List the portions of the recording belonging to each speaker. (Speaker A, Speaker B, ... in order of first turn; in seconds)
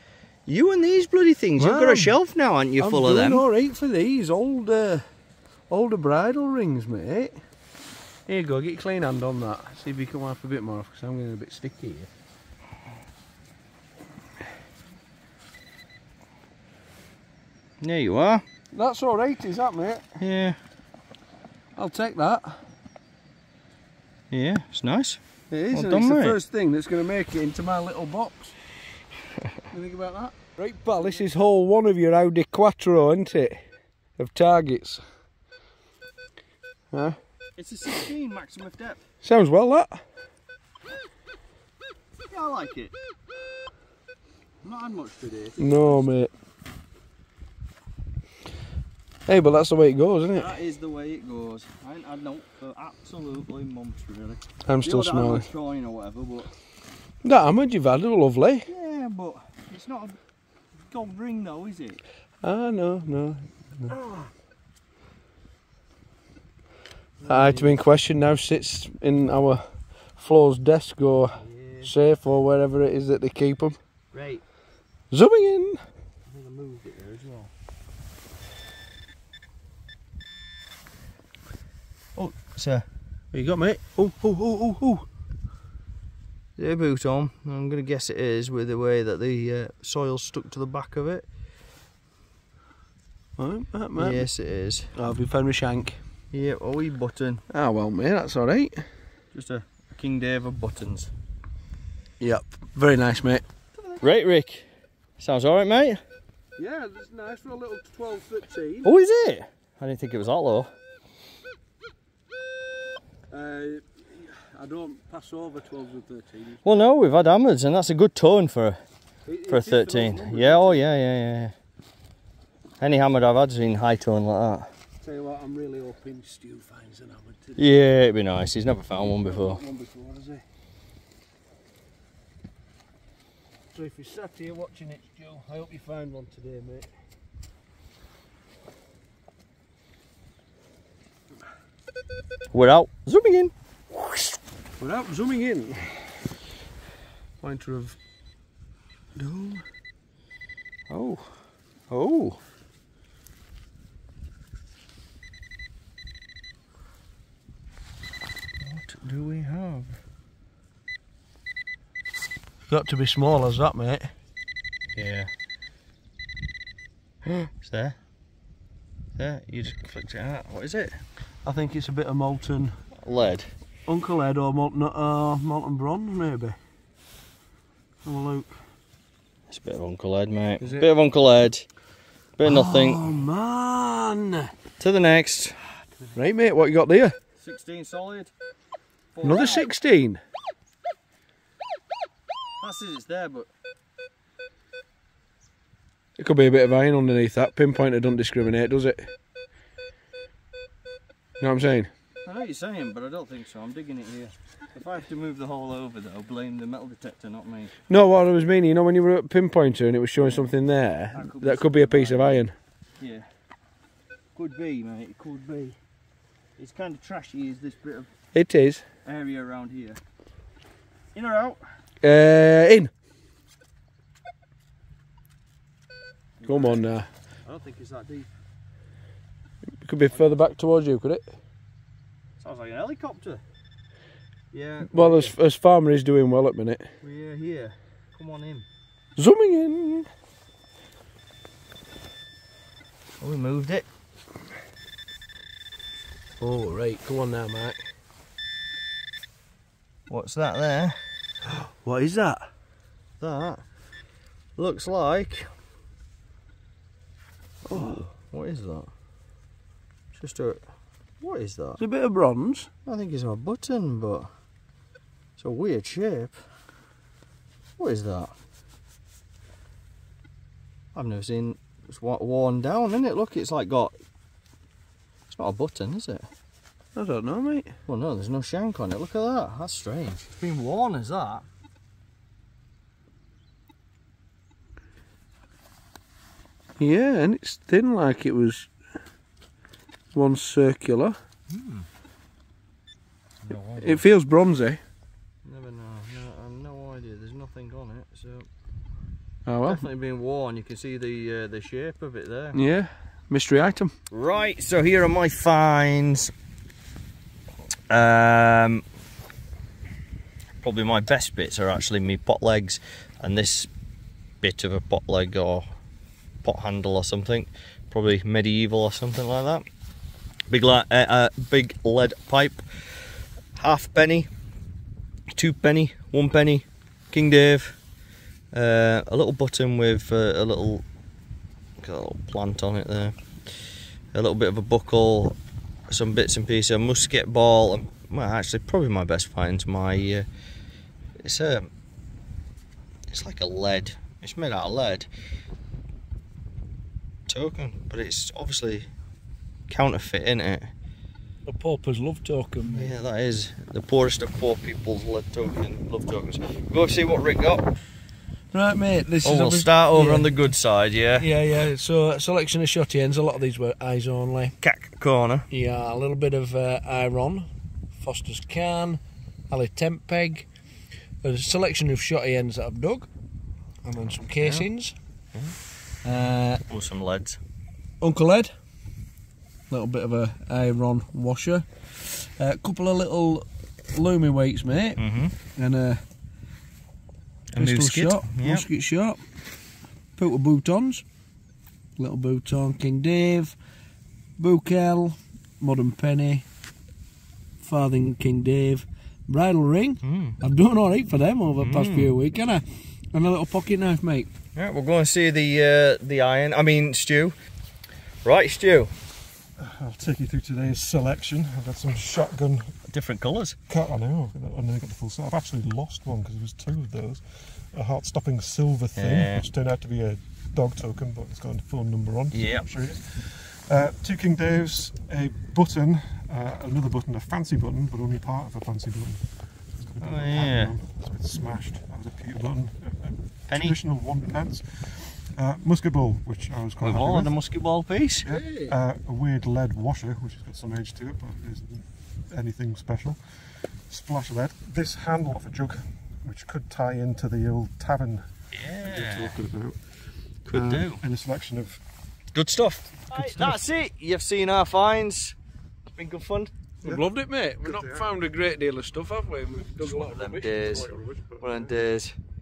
Speaker A: 0.5-3.5, 17.8-18.4, 20.2-20.6, 24.3-25.2, 25.7-26.4, 37.6-39.0, 42.3-42.9, 44.6-46.0, 50.3-56.5, 58.7-60.2, 60.9-62.0, 63.9-64.3, 67.2-67.8, 71.4-71.9, 74.1-74.4, 76.3-77.5, 82.2-82.9, 86.6-91.3, 94.0-94.9, 96.3-97.4, 99.3-101.1, 103.8-106.0, 108.8-110.7, 116.6-118.8, 119.5-121.5, 122.8-124.7, 127.6-129.6, 142.5-143.5, 149.2-149.6, 150.9-151.3, 151.9-152.4, 158.6-160.0, 165.0-165.3, 167.3-168.0, 169.2-171.0, 173.0-173.5, 179.5-181.7, 182.4-183.1, 184.8-185.6, 187.4-188.3, 189.2-189.7, 192.6-193.5, 202.2-207.7, 210.2-210.5, 211.1-212.4, 213.0-213.2, 214.3-215.8, 216.6-218.1, 219.1-220.0, 221.1-221.6, 226.4-226.8, 227.4-228.3, 230.1-230.4, 232.4-233.4, 234.5-235.3, 237.0-238.7, 243.2-243.9, 250.1-251.0, 253.2-253.6, 254.6-255.5, 257.7-258.9, 260.1-260.6, 261.2-261.8, 262.9-264.3, 265.4-266.4, 267.8-268.3, 270.9-273.9, 275.3-276.3, 277.9-281.4, 291.5-291.9, 293.4-294.1, 295.4-298.5, 299.6-302.6, 304.1-306.3, 307.9-308.8, 310.6-313.7, 314.4-315.6, 316.4-319.6, 320.5-322.6, 323.6-324.3, 325.3-327.8, 328.5-330.9, 331.8-333.1, 334.1-335.4, 335.9-340.3, 341.2-341.7, 343.1-345.1, 347.3-348.9, 349.7-350.7, 352.7-357.7, 359.2-361.3, 364.6-365.5, 374.4-374.7, 376.7-377.4, 385.0-385.4, 387.5-388.7, 400.0-400.4, 401.6-402.1, 404.6-407.4, 408.2-408.9, 412.9-413.6, 418.9-419.5, 422.3-422.7, 430.0-430.8, 433.5-433.8, 436.8-438.3, 448.5-449.4, 450.5-451.0, 452.3-455.4, 455.9-456.5, 459.8-462.2
Speaker B: 1.6-2.2, 2.8-5.0, 5.7-7.4, 8.3-12.1, 18.7-20.0, 21.8-22.6, 25.5-28.6, 29.7-33.6, 34.2-35.0, 36.9-37.2, 39.2-40.0, 45.6-46.3, 49.3-50.6, 54.7-55.5, 57.2-58.7, 62.4-64.0, 67.3-73.8, 75.1-75.8, 83.3-85.0, 93.4-94.3, 94.9-96.0, 97.5-98.8, 102.2-103.4, 106.6-108.9, 113.3-116.6, 119.3-120.9, 125.0-127.7, 129.2-130.4, 133.7-136.9, 144.8-145.9, 147.4-148.0, 162.7-164.1, 171.4-172.8, 173.9-176.6, 178.1-178.6, 180.6-180.9, 182.4-184.5, 186.2-187.2, 189.2-190.2, 196.2-199.1, 201.4-201.9, 207.9-212.5, 218.3-218.8, 222.0-222.9, 226.5-227.1, 229.8-231.3, 234.8-236.8, 239.2-240.1, 246.4-247.8, 251.6-252.5, 257.7-258.1, 261.8-262.7, 277.0-277.7, 286.8-288.7, 290.1-291.2, 293.8-294.8, 299.5-299.8, 302.5-303.9, 351.5-352.9, 358.5-360.3, 361.2-364.5, 365.5-370.5, 371.2-373.1, 373.8-374.9, 376.0-376.6, 378.0-378.5, 379.7-385.0, 385.6-386.0, 387.6-389.2, 390.2-391.0, 392.0-393.6, 394.4-396.4, 397.6-404.3, 438.3-438.7, 456.8-460.5
Speaker C: 409.6-412.7, 413.7-429.2, 429.9-437.4, 438.2-449.8, 450.4-451.8, 453.1-453.6, 457.6-458.1, 460.5-461.8